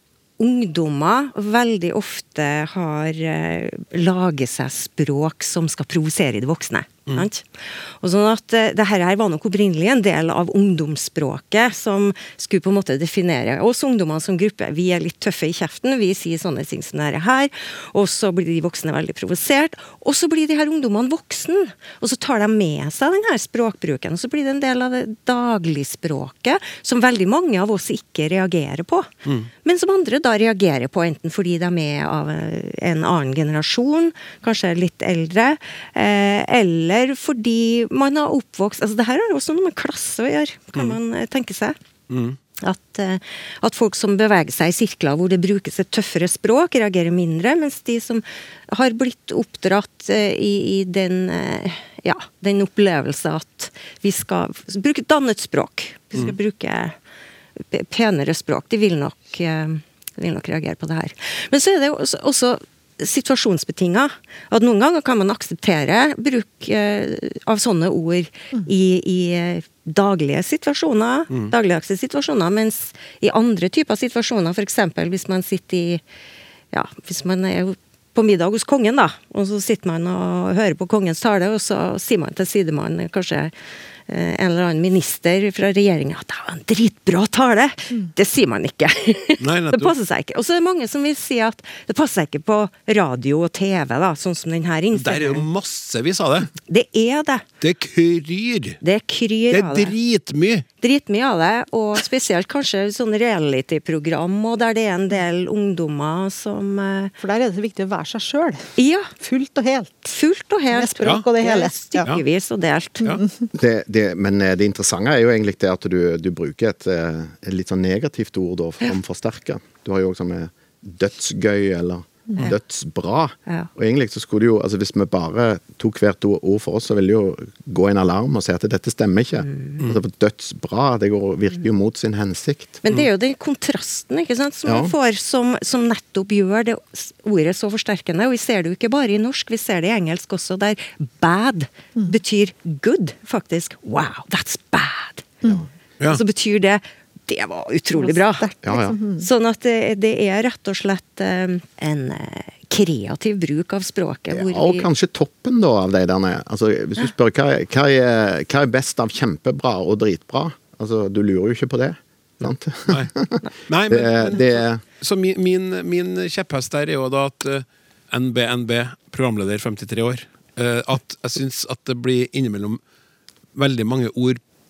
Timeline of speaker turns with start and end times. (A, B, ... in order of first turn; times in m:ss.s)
0:00.4-0:29.1 A
0:29.2-0:29.5 B
0:29.6-0:41.8 A
0:42.1-0:42.4 B
0:42.6-0:57.0 A
0:57.6-1:16.0 A
1:16.7-1:23.5 A
1:24.1-1:35.5 A
1:29.4-1:29.9 B
1:34.9-1:36.5 B
1:36.7-1:37.4 A
1:37.6-1:38.8 B
1:38.8-1:40.0 A
1:39.5-1:40.6 B
1:40.8-1:47.2 A
1:47.2-1:48.7 C
1:48.8-1:49.1 A
1:49.2-1:50.2 C
1:50.1-1:53.1 A
1:50.7-1:52.1 C
1:53.0-1:53.5 C
1:53.5-2:12.8 D
2:09.4-2:09.8 A
2:12.8-2:25.3 A
2:26.1-2:28.5 A
2:28.0-2:29.3 C
2:28.6-2:29.0 D
2:29.2-2:34.9 A
2:34.3-2:44.8 D
2:43.7-2:52.8 B
2:53.6-2:54.4 B